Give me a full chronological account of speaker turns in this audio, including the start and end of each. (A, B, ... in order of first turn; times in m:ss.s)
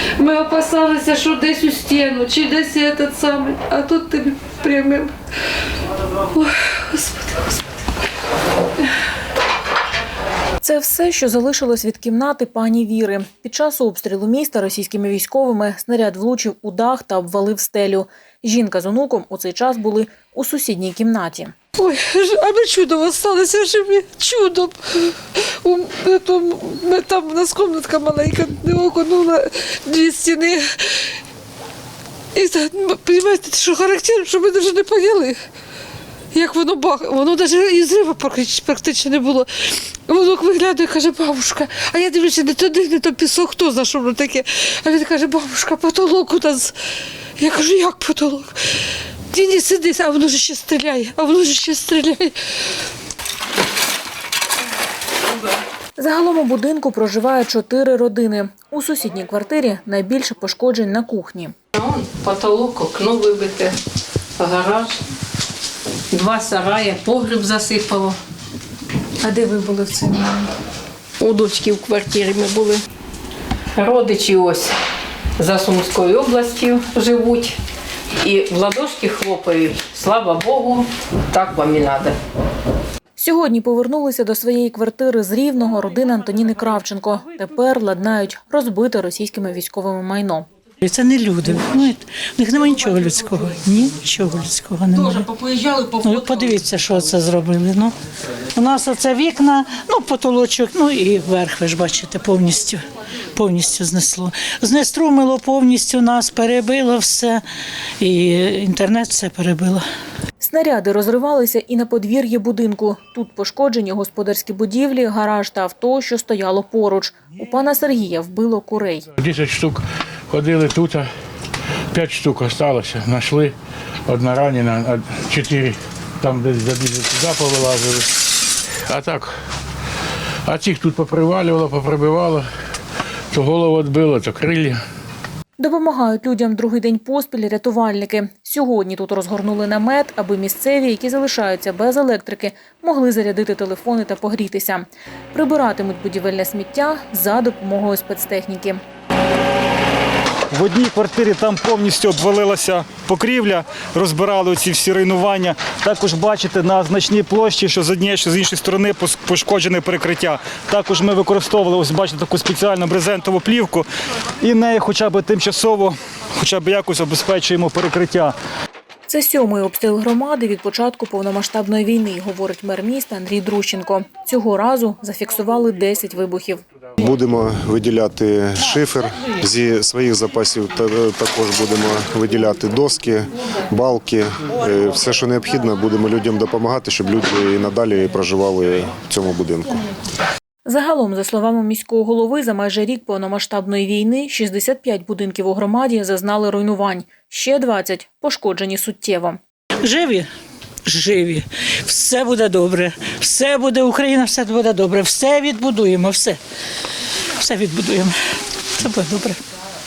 0:00.2-0:05.1 A
0:06.3-0:07.6 A
0:10.6-0:21.5 B
0:21.8-0:25.1 A
0:25.6-0:31.1 A
0:32.4-0:35.4 A
0:36.3-0:46.7 A
0:47.4-0:48.5 A
0:49.3-0:52.3 A
0:56.0-1:01.6 B
1:01.8-1:03.8 C
1:04.4-1:05.0 C
1:06.1-1:08.2 C
1:09.5-1:10.2 B
1:11.2-1:12.8 C
1:13.8-1:14.7 C
1:15.4-1:17.6 C
1:18.2-1:22.2 C
1:23.2-1:30.5 B
1:30.8-1:35.3 D
1:35.3-1:36.0 C
1:35.9-1:37.9 D
1:38.5-1:47.4 D
1:48.0-1:49.8 D
1:50.4-1:59.1 B
1:59.2-2:01.1 E
2:01.9-2:03.5 E
2:04.1-2:08.1 E
2:08.9-2:09.3 E
2:10.5-2:12.5 E
2:13.3-2:14.8 E
2:15.6-2:28.8 B
2:30.5-2:43.9 F
2:44.4-2:48.3 F
2:49.1-2:56.6 B
2:57.0-3:09.8 G
3:10.6-3:19.4 B
3:19.8-3:20.3 D
3:20.9-3:26.4 D
3:27.4-3:29.4 D